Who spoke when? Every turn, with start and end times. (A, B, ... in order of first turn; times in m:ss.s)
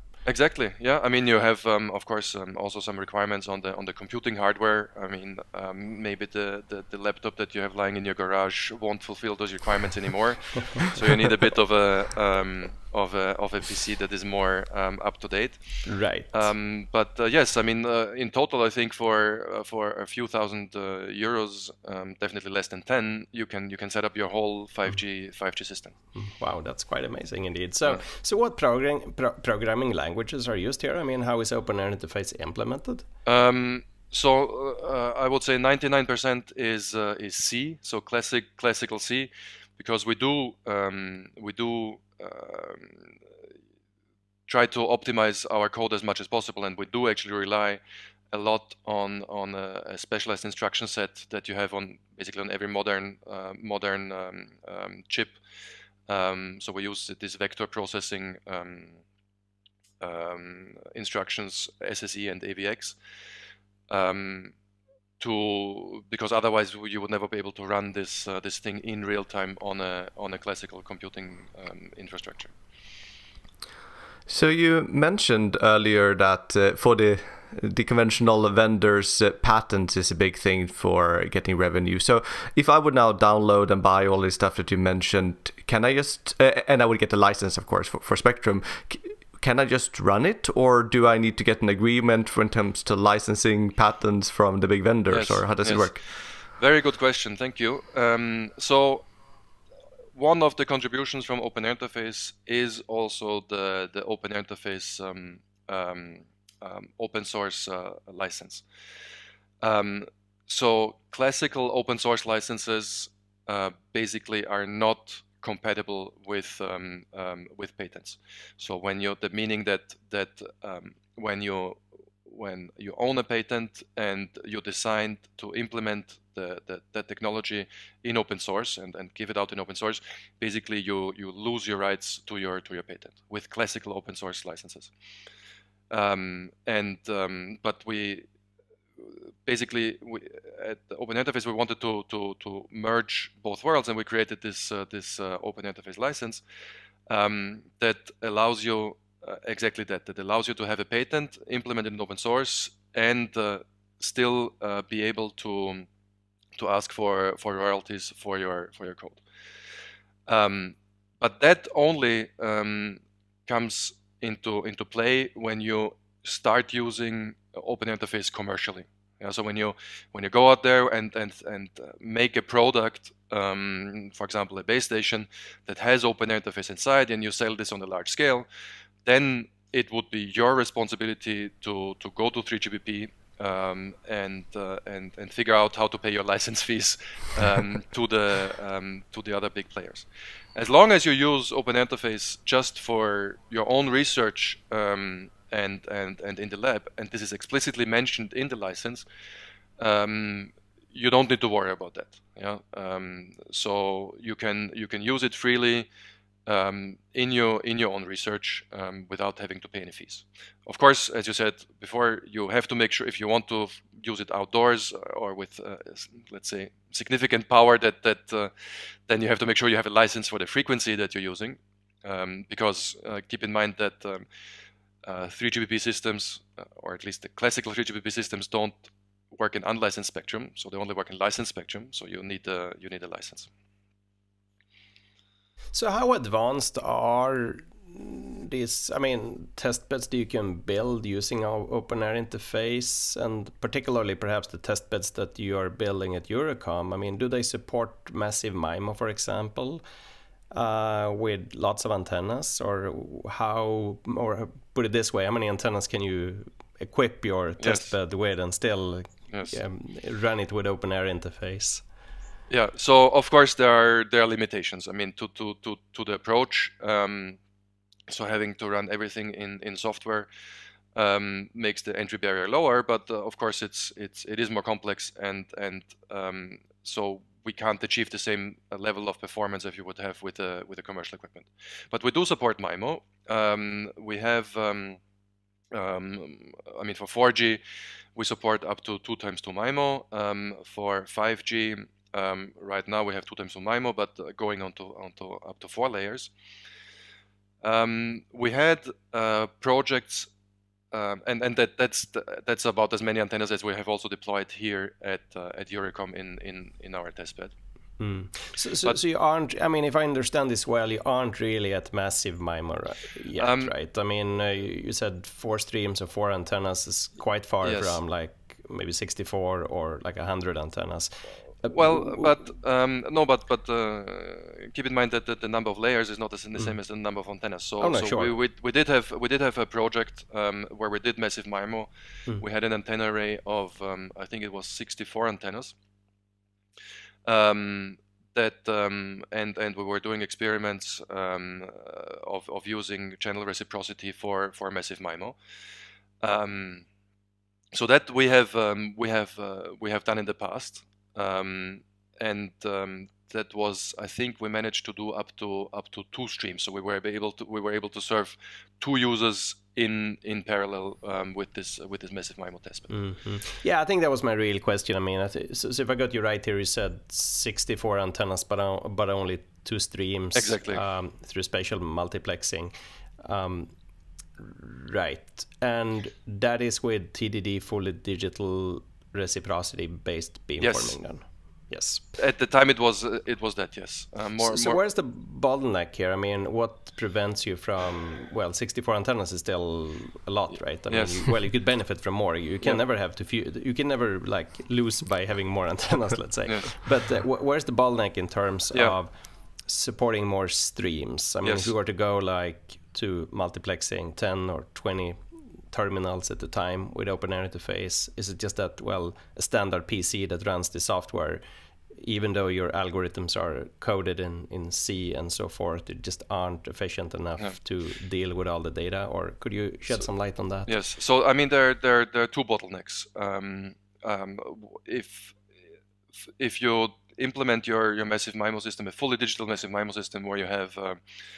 0:00.2-0:15.6 A
0:15.8-0:16.3 B
0:16.3-0:25.9 A
0:26.1-0:33.0 B
0:33.2-0:43.1 A
0:44.5-0:55.4 A
0:56.1-0:59.0 A
1:00.0-1:03.0 A
1:03.9-1:04.5 A
1:05.2-1:12.5 A
1:14.3-1:36.0 C
1:35.1-1:36.0 A
1:36.6-1:39.1 A
1:40.1-1:48.6 A
1:49.6-2:14.9 A
2:15.9-2:18.2 A
2:19.0-2:26.4 A
2:27.1-2:35.9 A
2:36.6-2:39.2 A
2:40.3-2:58.4 A
2:59.0-3:19.0 A
3:19.8-3:25.9 A
3:26.4-3:38.5 A
3:39.1-3:44.2 A
3:45.0-3:53.5 A
3:55.7-4:09.8 B
4:10.5-4:21.8 B
4:17.6-4:17.9 A
4:22.5-4:27.4 A
4:28.1-4:30.3 A
4:30.9-4:45.0 A
4:45.7-4:47.6 A
4:48.2-4:56.3 A
4:57.6-5:00.3 A
5:00.9-5:07.5 A
5:08.0-5:22.3 B
5:13.4-5:13.7 A
5:17.6-5:18.0 A
5:21.7-5:35.7 A
5:27.8-5:28.3 B
5:37.2-5:45.4 A
5:46.2-5:46.8 A
5:47.7-6:02.9 A
6:02.9-6:13.7 B
6:10.3-6:10.8 A
6:14.4-6:22.0 B
6:20.6-6:21.0 A
6:22.2-6:24.8 A
6:24.4-6:39.1 B
6:30.9-6:31.3 A
6:36.5-6:36.7 A
6:39.7-6:45.2 B
6:41.4-6:41.7 A
6:45.7-6:51.4 B
6:51.9-7:00.7 B
7:00.7-7:05.4 A
7:06.4-7:11.0 A